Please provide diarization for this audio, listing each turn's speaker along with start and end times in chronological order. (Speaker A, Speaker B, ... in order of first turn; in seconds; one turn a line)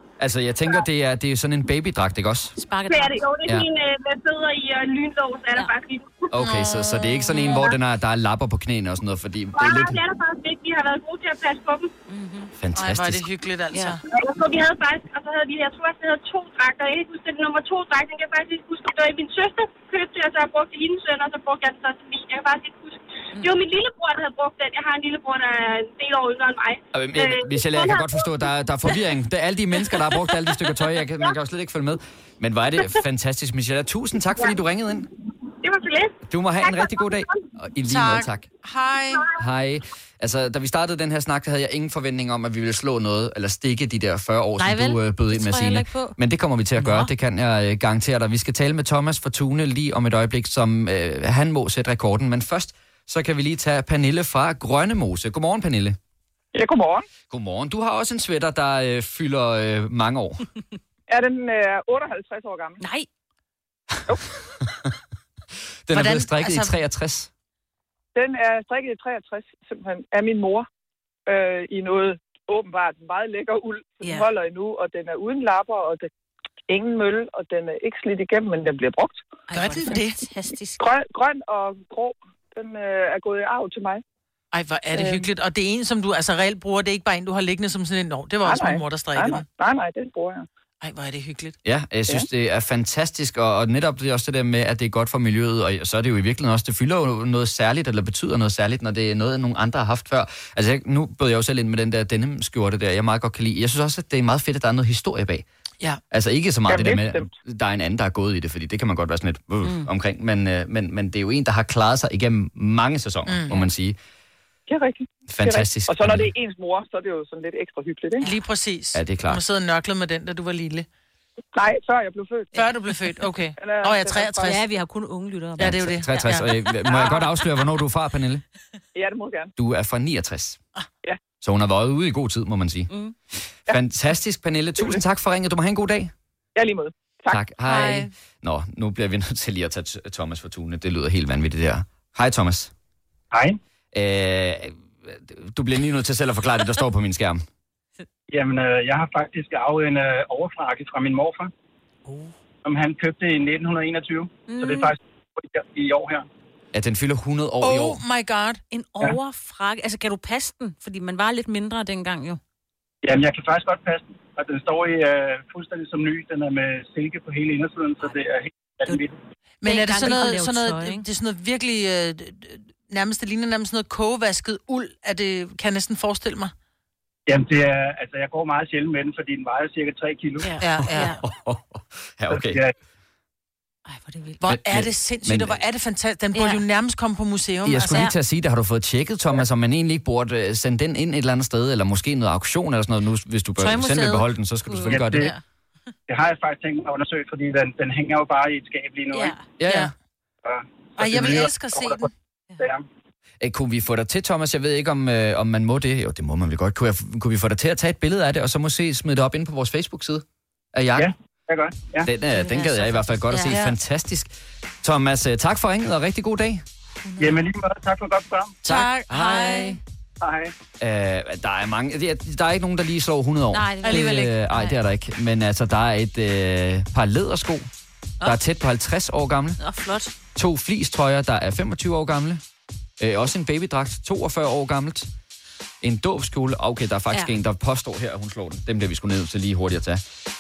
Speaker A: 0.2-2.5
Speaker B: 2.6-3.2
Speaker C: 2.9-6.3
Speaker A: 6.3-10.0
Speaker D: 6.4-6.9
Speaker B: 7.3-7.6
Speaker C: 7.5-7.8
Speaker C: 9.5-11.9
Speaker B: 12.1-12.5
Speaker A: 12.6-13.3
Speaker D: 12.8-14.0
Speaker C: 14.1-28.3
Speaker A: 26.9-35.1
Speaker C: 35.6-37.4
Speaker A: 36.3-38.5
Speaker D: 37.9-39.3
Speaker A: 39.4-56.0
Speaker B: 44.6-46.2
Speaker B: 46.8-47.1
Speaker E: 56.5-57.1
Speaker A: 57.3-60.5
Speaker E: 61.1-62.8
Speaker B: 62.8-63.1
Speaker A: 65.9-67.3
Speaker D: 65.9-66.8
Speaker E: 68.2-70.7
Speaker E: 71.3-76.1
Speaker B: 74.0-74.3
Speaker E: 76.7-79.2
Speaker B: 79.5-80.8
Speaker D: 79.5-80.2
Speaker E: 80.8-84.0
Speaker D: 84.5-89.5
Speaker E: 84.9-85.3
Speaker E: 88.4-90.5
Speaker D: 90.8-91.6
Speaker A: 91.6-105.5
Speaker A: 106.1-114.0
Speaker E: 106.7-107.3
Speaker D: 113.3-113.6
Speaker E: 114.7-118.3
Speaker A: 115.3-116.3
Speaker D: 118.2-120.9
Speaker A: 118.9-119.4
Speaker E: 121.5-122.6
Speaker D: 122.5-124.6
Speaker E: 123.6-124.6
Speaker B: 124.4-127.3
Speaker D: 125.6-126.5
Speaker A: 125.6-128.4
Speaker E: 128.9-129.5
Speaker A: 129.6-130.6
Speaker A: 131.4-132.9
Speaker B: 132.9-133.2
Speaker A: 133.7-136.1
Speaker E: 136.6-137.4
Speaker A: 137.3-142.7
Speaker B: 137.8-138.1
Speaker F: 143.3-143.6
Speaker A: 143.9-147.4
Speaker F: 148.3-151.5
Speaker F: 152.6-156.2
Speaker B: 154.5-154.9
Speaker A: 156.7-158.0
Speaker D: 157.6-158.6
Speaker B: 158.7-162.4
Speaker F: 163.0-169.2
Speaker D: 169.6-176.5
Speaker B: 169.6-171.1
Speaker F: 177.3-180.6
Speaker B: 180.4-181.2
Speaker D: 180.6-181.2
Speaker A: 180.9-182.6
Speaker F: 182.3-182.7
Speaker B: 183.9-184.4
Speaker D: 184.4-188.1
Speaker A: 184.5-185.6
Speaker B: 186.3-186.6
Speaker A: 187.7-195.3
Speaker B: 193.6-195.4
Speaker F: 194.9-195.3
Speaker F: 196.1-199.3
Speaker B: 199.1-199.4
Speaker A: 199.6-199.9
Speaker D: 199.6-199.9
Speaker F: 200.4-202.1
Speaker D: 201.0-202.1
Speaker A: 203.4-211.1
Speaker F: 211.0-212.1
Speaker A: 212.1-214.3
Speaker B: 212.3-213.7
Speaker D: 213.5-213.7
Speaker A: 214.8-216.6
Speaker D: 217.1-217.4
Speaker F: 217.2-218.6
Speaker D: 218.6-219.8
Speaker A: 218.7-219.8
Speaker F: 220.2-220.5
Speaker A: 220.8-227.7
Speaker B: 223.5-224.8
Speaker A: 228.2-229.6
Speaker B: 229.6-230.1
Speaker A: 230.3-232.4
Speaker A: 233.0-235.1
Speaker A: 235.8-240.0
Speaker B: 237.1-237.4